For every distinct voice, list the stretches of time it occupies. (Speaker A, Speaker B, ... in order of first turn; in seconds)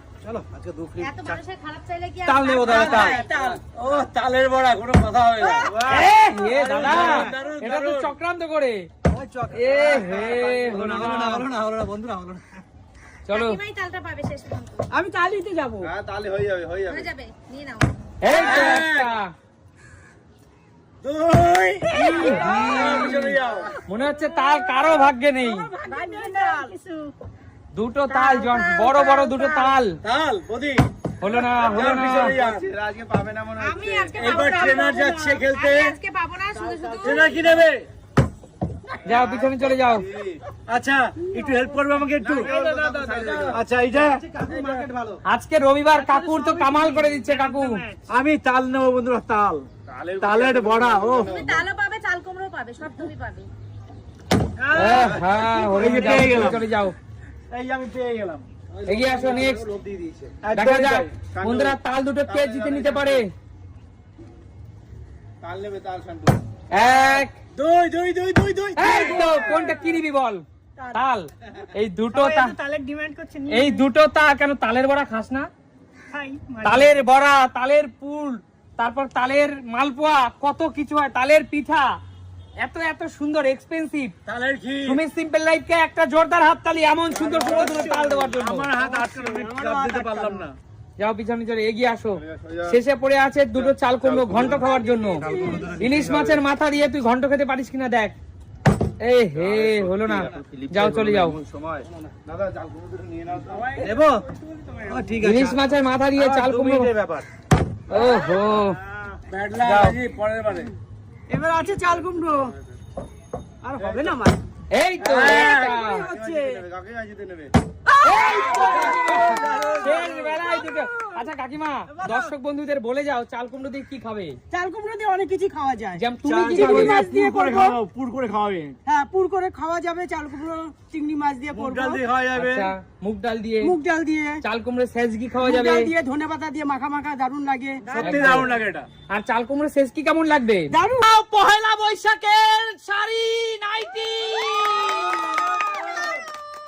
Speaker A: 0.2-1.4, 6.7-7.4, 9.1-12.6, 36.5-37.1, 42.2-45.2, 46.7-47.7, 55.8-56.5, 58.8-60.5, 103.8-104.1, 104.9-105.5
Speaker B: 1.0-3.3, 13.3-14.9, 16.9-17.9, 25.7-26.8, 28.1-29.7, 33.6-37.4, 51.3-53.5, 144.5-145.3
Speaker C: 2.2-3.2, 5.9-8.9, 9.5-11.5, 13.3-13.6, 18.2-19.3, 21.9-25.7, 27.7-30.0, 31.2-32.4, 39.0-40.0, 45.3-47.8, 54.7-56.9, 58.9-59.6, 60.5-63.2, 66.7-67.3, 68.8-70.4, 70.9-72.5, 73.5-75.5, 76.6-81.9, 82.6-84.1, 84.8-88.7, 91.0-98.1, 99.0-101.3, 105.2-106.9, 107.9-108.8, 109.6-109.9, 114.7-116.1, 118.0-124.4, 126.0-127.0, 132.3-133.8, 134.4-135.9, 138.0-138.5, 139.1-145.3
Speaker D: 2.7-8.1, 10.1-11.1, 18.3-19.1, 21.0-23.7, 30.0-30.8, 31.6-32.7, 34.1-36.0, 37.0-37.9, 40.7-42.5, 43.5-44.2, 48.1-49.6, 50.2-51.3, 54.6-56.6, 57.5-58.4, 60.4-61.1, 67.5-69.5, 84.2-85.0, 87.2-90.5, 103.8-104.2, 104.9-105.5, 106.2-107.1, 109.3-110.7, 115.0-115.8, 118.5-120.4, 126.2-128.8, 131.5-132.7, 137.8-138.9, 144.9-146.1
Speaker E: 3.2-3.5, 14.9-15.9, 21.9-22.7, 24.9-27.1, 34.2-35.3, 41.2-41.8, 46.0-47.0, 69.3-69.8, 72.1-73.8, 76.1-76.9, 88.7-90.4, 94.4-95.8, 103.5-105.0, 111.3-112.5, 113.6-114.4, 115.2-116.6, 117.9-121.2, 124.5-127.8, 128.8-132.0, 133.6-134.4, 135.4-138.5, 140.7-141.0
Speaker F: 5.6-6.1, 15.8-17.1, 31.5-34.5, 39.0-40.4, 42.2-43.6, 44.5-44.8, 49.9-51.7, 61.3-63.2, 65.4-66.4, 92.1-92.8, 93.5-96.4, 99.3-103.8, 113.8-114.2, 115.8-117.5